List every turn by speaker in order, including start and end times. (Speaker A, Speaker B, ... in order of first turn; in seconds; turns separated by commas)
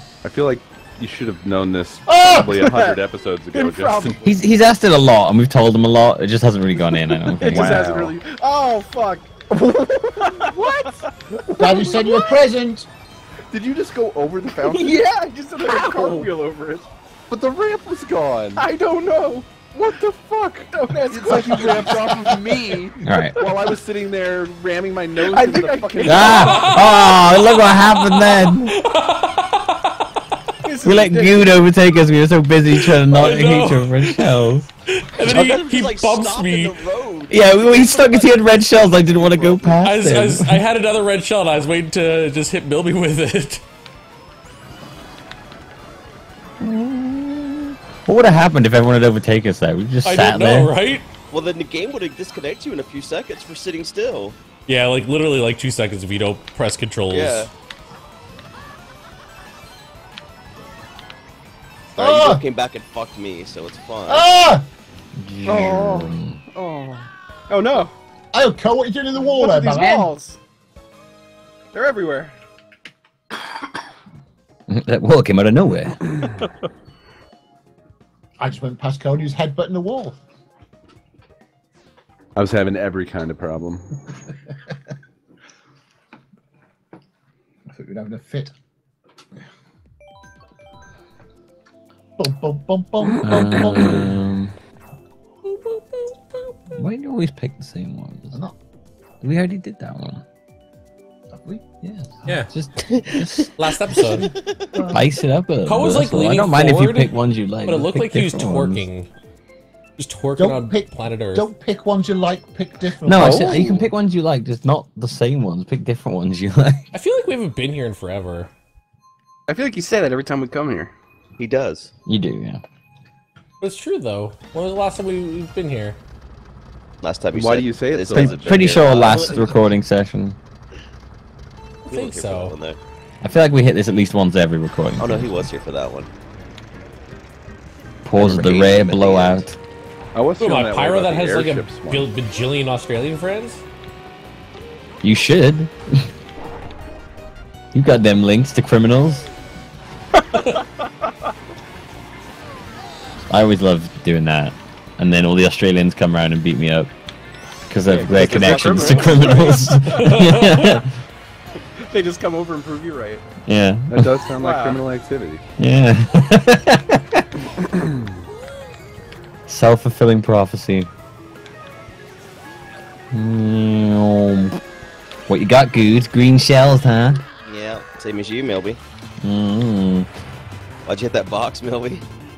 Speaker A: 0.2-4.2, Speaker B: 2.1-2.6, Speaker C: 2.5-3.0, Speaker C: 3.5-4.3, Speaker D: 4.2-7.9, Speaker C: 6.9-12.3, Speaker A: 7.6-8.2, Speaker B: 11.5-12.9, Speaker A: 13.5-15.0, Speaker C: 14.5-16.9, Speaker E: 15.7-16.2, Speaker A: 17.3-18.6, Speaker C: 18.6-19.6, Speaker A: 19.6-26.8, Speaker C: 20.7-22.9, Speaker B: 21.6-22.2, Speaker D: 23.0-23.4, Speaker C: 25.3-26.4, Speaker D: 26.0-28.8, Speaker E: 26.1-29.9, Speaker C: 30.6-31.6, Speaker D: 30.8-34.7, Speaker E: 32.8-36.8, Speaker F: 35.2-39.8, Speaker D: 37.3-40.6, Speaker E: 39.8-43.6, Speaker D: 46.6-50.7, Speaker E: 50.0-51.1, Speaker F: 51.3-54.4, Speaker E: 54.7-57.5, Speaker F: 57.1-57.5, Speaker F: 61.9-64.3, Speaker B: 62.0-62.4, Speaker B: 64.1-64.7, Speaker D: 65.2-66.4, Speaker C: 65.5-67.9, Speaker B: 68.3-70.1, Speaker C: 69.2-70.4, Speaker C: 71.7-72.3, Speaker D: 74.7-76.1, Speaker B: 78.4-80.2, Speaker A: 82.4-83.9, Speaker B: 87.7-88.5, Speaker B: 92.2-94.1, Speaker D: 93.2-94.5, Speaker E: 95.5-96.5, Speaker D: 96.7-98.3, Speaker D: 99.2-100.2, Speaker B: 101.3-101.6, Speaker D: 101.8-103.5, Speaker F: 102.9-104.7, Speaker E: 103.6-104.3, Speaker B: 104.7-105.1, Speaker D: 104.9-108.9, Speaker E: 105.7-109.1, Speaker E: 110.0-111.5, Speaker B: 110.4-113.7, Speaker D: 113.0-116.9, Speaker C: 113.2-113.9, Speaker E: 116.9-118.5, Speaker C: 119.5-120.9, Speaker F: 121.4-121.9, Speaker D: 122.1-122.6, Speaker E: 123.6-126.0, Speaker F: 127.0-129.6, Speaker A: 127.3-129.3, Speaker D: 128.1-130.4, Speaker F: 131.9-132.8, Speaker E: 131.9-132.6, Speaker D: 133.2-135.5, Speaker F: 135.0-136.1, Speaker D: 138.1-139.6, Speaker F: 138.2-139.4, Speaker A: 140.1-142.1, Speaker E: 140.4-143.6, Speaker D: 145.0-146.1, Speaker D: 147.7-149.3, Speaker D: 153.3-156.9, Speaker D: 157.7-160.9, Speaker F: 157.9-159.7, Speaker C: 157.9-160.0, Speaker E: 159.9-160.8, Speaker C: 161.8-163.2, Speaker D: 163.5-164.1, Speaker A: 163.9-165.4, Speaker C: 164.4-164.9, Speaker D: 165.6-167.2, Speaker D: 169.5-170.9, Speaker D: 173.1-174.6, Speaker D: 175.3-177.2, Speaker F: 177.4-178.8, Speaker D: 179.2-180.1, Speaker F: 180.9-182.1